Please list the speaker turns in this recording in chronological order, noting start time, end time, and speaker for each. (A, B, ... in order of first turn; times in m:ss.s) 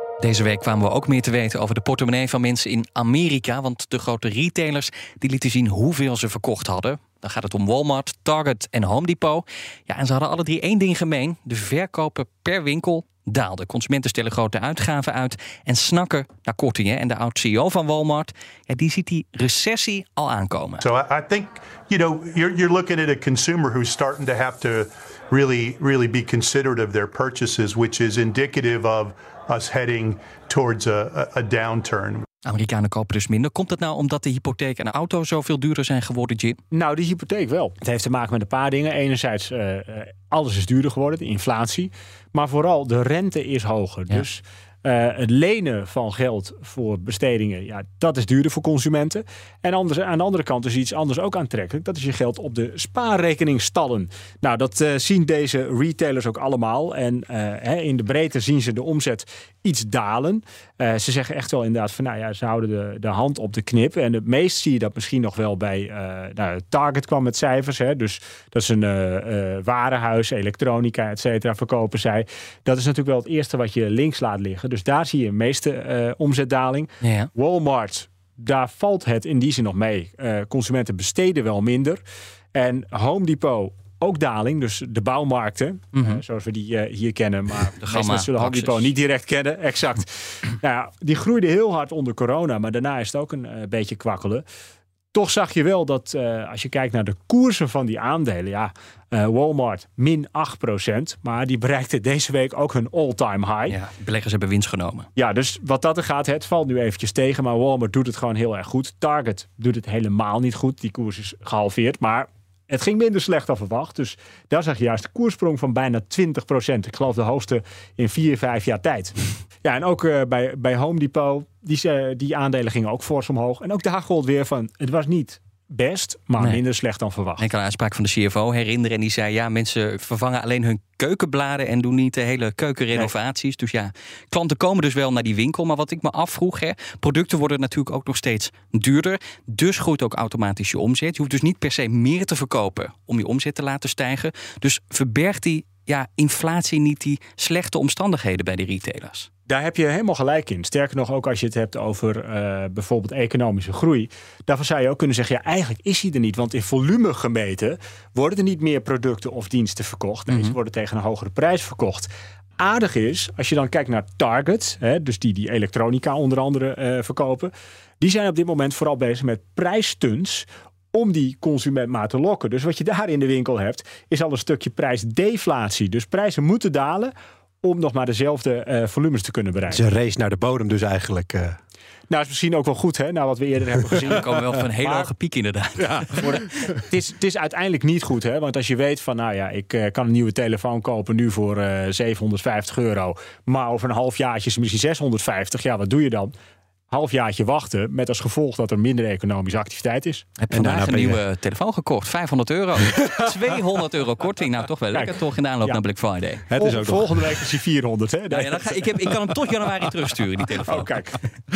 0:00.2-0:20.8 A
0:20.8-0:32.2 B
0:32.4-0:36.6 A
0:36.7-1:22.0 C
1:17.0-1:17.3 A
1:22.6-1:34.4 C
1:26.0-1:26.2 A
1:27.8-1:28.9 A
1:35.1-1:43.8 C
1:43.7-1:45.1 A
1:45.2-2:07.4 C
2:07.4-2:29.3 A
2:29.5-2:59.8 C
2:40.3-2:40.5 A
2:59.7-3:01.6 D
3:02.1-3:05.1 C
3:04.0-3:06.3 A
3:06.2-3:16.3 C
3:16.9-3:20.3 C
3:20.4-3:26.4 A
3:20.5-3:21.2 D
3:24.9-3:25.8 C
3:26.5-3:27.3 D
3:26.6-3:29.3 C
3:28.3-3:30.9 A
3:30.6-3:31.2 C